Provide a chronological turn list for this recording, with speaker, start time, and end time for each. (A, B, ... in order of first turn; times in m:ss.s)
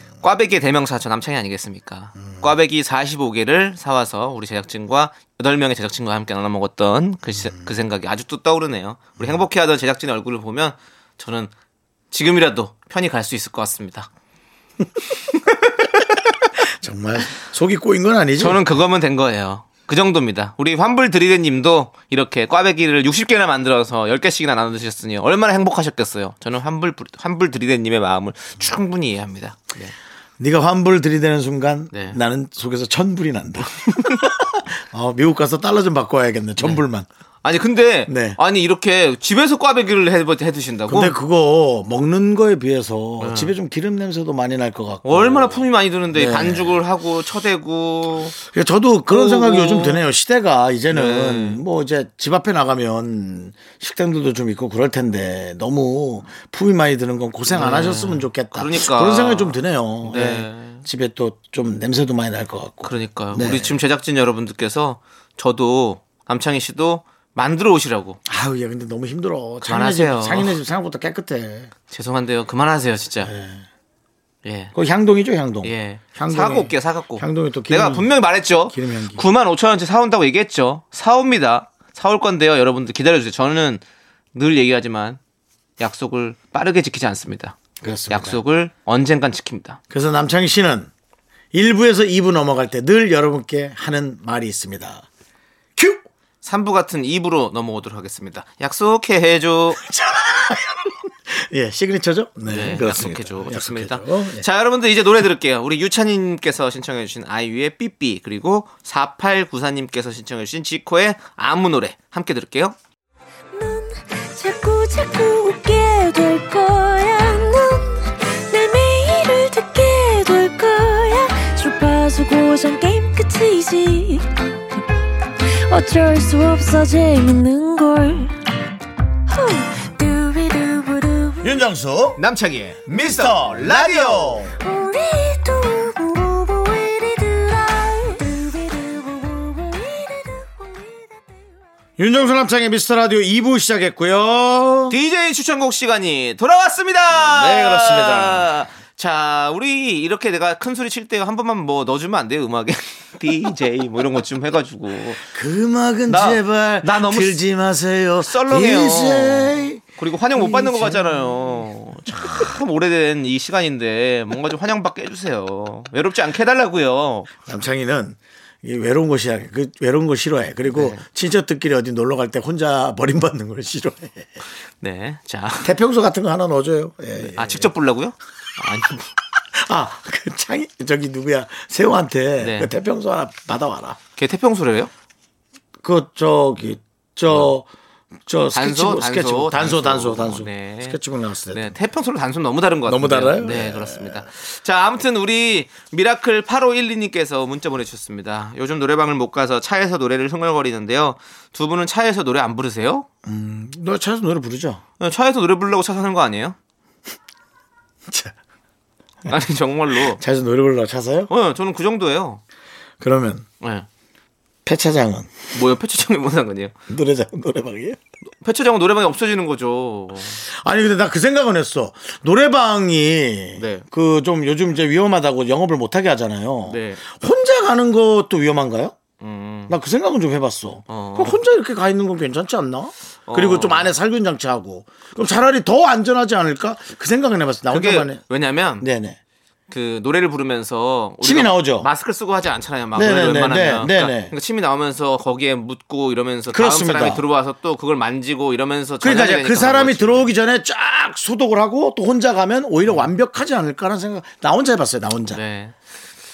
0:00.2-0:11.5 A
0:07.3-0:07.7 B
0:12.1-0:14.1 A
0:16.6-0:18.7 B
0:18.4-0:29.9 A
0:30.4-0:37.1 B
0:31.9-0:32.2 A
0:37.4-0:41.2 A
0:38.1-0:38.4 B
0:40.9-0:46.8 B
0:43.2-0:43.5 A
0:45.0-0:48.4 A
0:48.4-1:03.8 B
0:49.1-0:50.0 A
0:50.9-0:51.6 A
0:57.5-1:00.8 A
1:02.8-1:08.2 A
1:08.2-1:11.7 B
1:09.6-1:10.6 A
1:11.9-1:13.3 A
1:13.2-1:13.6 B
1:14.4-1:14.7 A
1:14.7-1:19.2 B
1:15.6-1:23.8 A
1:24.3-1:25.2 A
1:25.8-1:27.6 A
1:27.8-1:28.4 B
1:28.1-1:29.8 A
1:29.9-1:30.9 B
1:31.5-1:35.0 B
1:35.8-1:36.0 B
1:36.4-1:39.8 A
1:39.8-1:44.4 B
1:42.5-1:52.8 A
1:53.5-2:04.3 C
2:05.4-2:08.4 C
2:09.3-2:11.5 C
2:11.4-2:12.2 B
2:12.2-2:14.4 A
2:12.9-2:14.5 B
2:14.6-2:21.3 C
2:22.0-2:25.0 B
2:24.9-2:35.2 A
2:27.1-2:28.5 B
2:35.3-2:39.8 B
2:36.1-2:37.4 A
2:38.2-2:47.3 A
2:40.3-2:41.0 B
2:42.2-2:42.4 B
2:47.4-2:54.3 B
2:50.7-2:51.0 A
2:54.8-2:55.7 A
2:55.6-2:57.7 B
2:57.3-2:59.1 A
2:59.5-3:04.0 B
3:02.4-3:02.7 A
3:04.2-3:04.9 A
3:05.8-3:07.7 B
3:08.2-3:11.8 B
3:08.5-3:11.0 A
3:11.5-3:23.1 A
3:12.8-3:14.2 B
3:23.2-3:24.8 B
3:25.0-3:26.6 A
3:28.1-3:28.3 B
3:29.3-3:30.2 A
3:29.9-3:31.3 B
3:31.3-3:32.4 A
3:33.0-3:33.4 B
3:33.6-3:33.9 A
3:34.6-3:35.3 B
3:35.5-3:36.7 A
3:36.9-3:38.0 B
3:38.4-3:40.4 A
3:40.4-3:49.0 B
3:43.6-3:43.8 A
3:46.7-3:47.0 A
3:49.2-3:49.7 A
3:49.7-3:58.2 B
3:50.9-3:51.4 A
3:53.3-3:53.9 A
3:57.7-3:58.9 A
3:58.8-3:59.2 B
3:59.7-4:10.3 A
4:01.2-4:01.9 B
4:02.9-4:04.3 B
4:06.5-4:07.2 B
4:09.0-4:15.4 B
4:15.3-4:15.7 A